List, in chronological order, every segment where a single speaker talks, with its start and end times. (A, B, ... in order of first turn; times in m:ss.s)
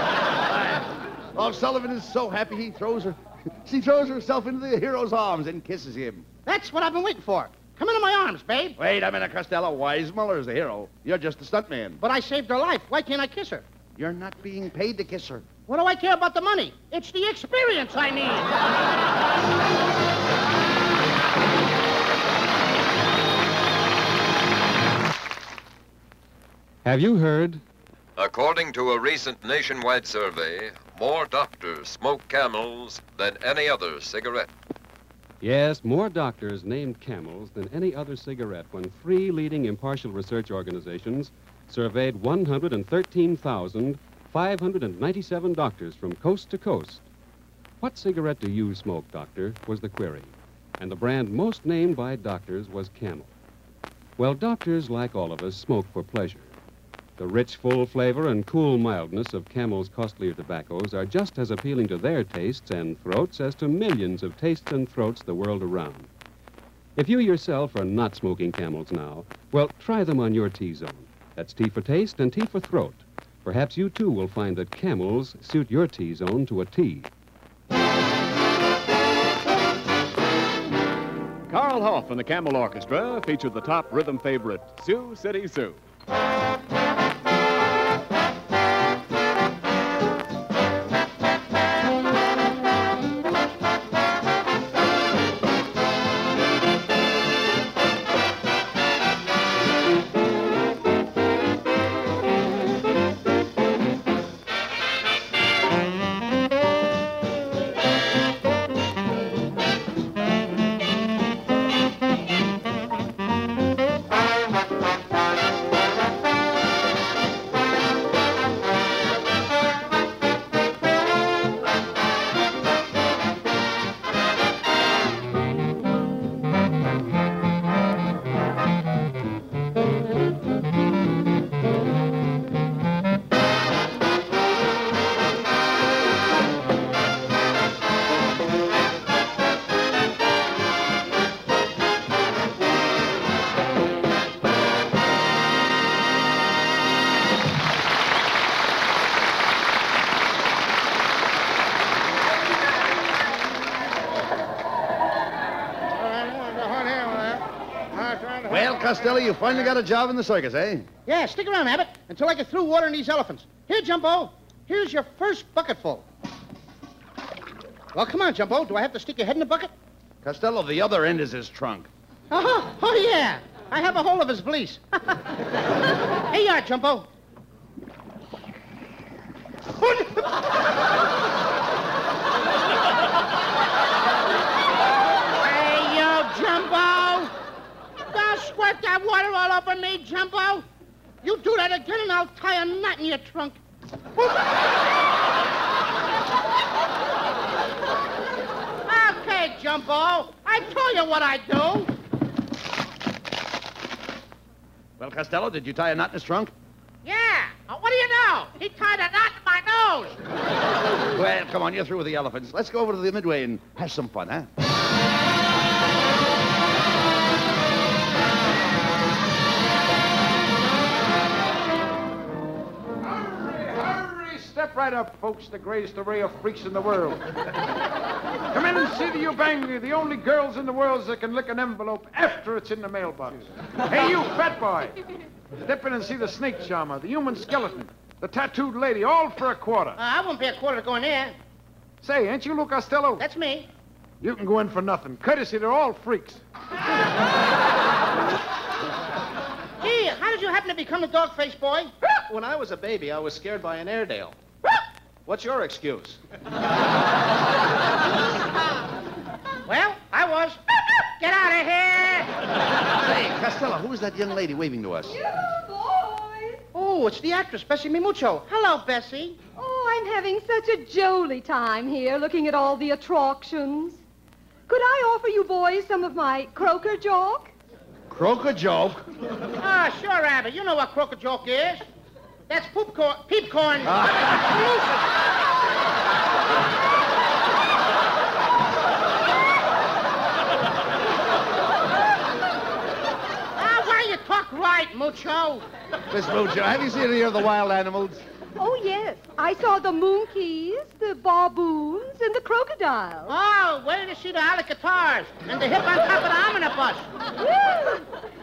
0:00.4-0:06.3 A
0:06.5-0:08.8 B
0:08.8-0:12.0 A
0:12.0-0:13.6 B
0:14.0-0:15.4 A
0:15.7-0:18.5 B
0:26.8-0:27.6 C
0:28.2-0:34.5 D
0:35.4-0:47.0 C
0:47.8-0:53.3 C
0:54.2-0:56.5 C
0:57.2-1:06.1 C
1:07.0-1:17.1 C
1:21.5-1:25.8 E
2:36.0-2:38.7 B
2:38.5-2:40.9 A
2:41.1-2:46.0 B
2:47.9-2:49.7 B
2:50.2-2:51.9 A
2:52.3-2:55.2 B
2:56.3-2:57.1 B
3:05.4-3:07.3 B
3:08.1-3:10.6 B
3:11.2-3:13.6 B
3:18.9-3:21.9 B
3:25.0-3:26.5 A
3:27.0-3:30.2 B
3:31.1-3:34.5 A
3:43.0-3:47.2 F
3:48.5-3:55.0 F
3:55.6-4:00.0 F
4:00.0-4:01.4 B
4:02.0-4:03.2 F
4:03.2-4:03.7 B
4:04.2-4:06.4 F
4:09.8-4:11.9 B
4:12.0-4:14.4 G
4:15.3-4:16.2 G
4:19.7-4:22.3 B
4:23.0-4:25.2 A
4:25.1-4:26.6 H
4:26.7-4:29.4 B
4:29.6-4:34.0 H
4:34.7-4:37.5 H
4:38.1-4:39.0 A
4:39.6-4:41.8 B
4:42.5-4:44.1 B
4:43.8-4:44.5 A
4:53.6-4:55.6 B
4:56.1-4:58.2 A
4:58.6-5:03.3 H
5:03.3-5:07.1 B
5:07.4-5:08.1 H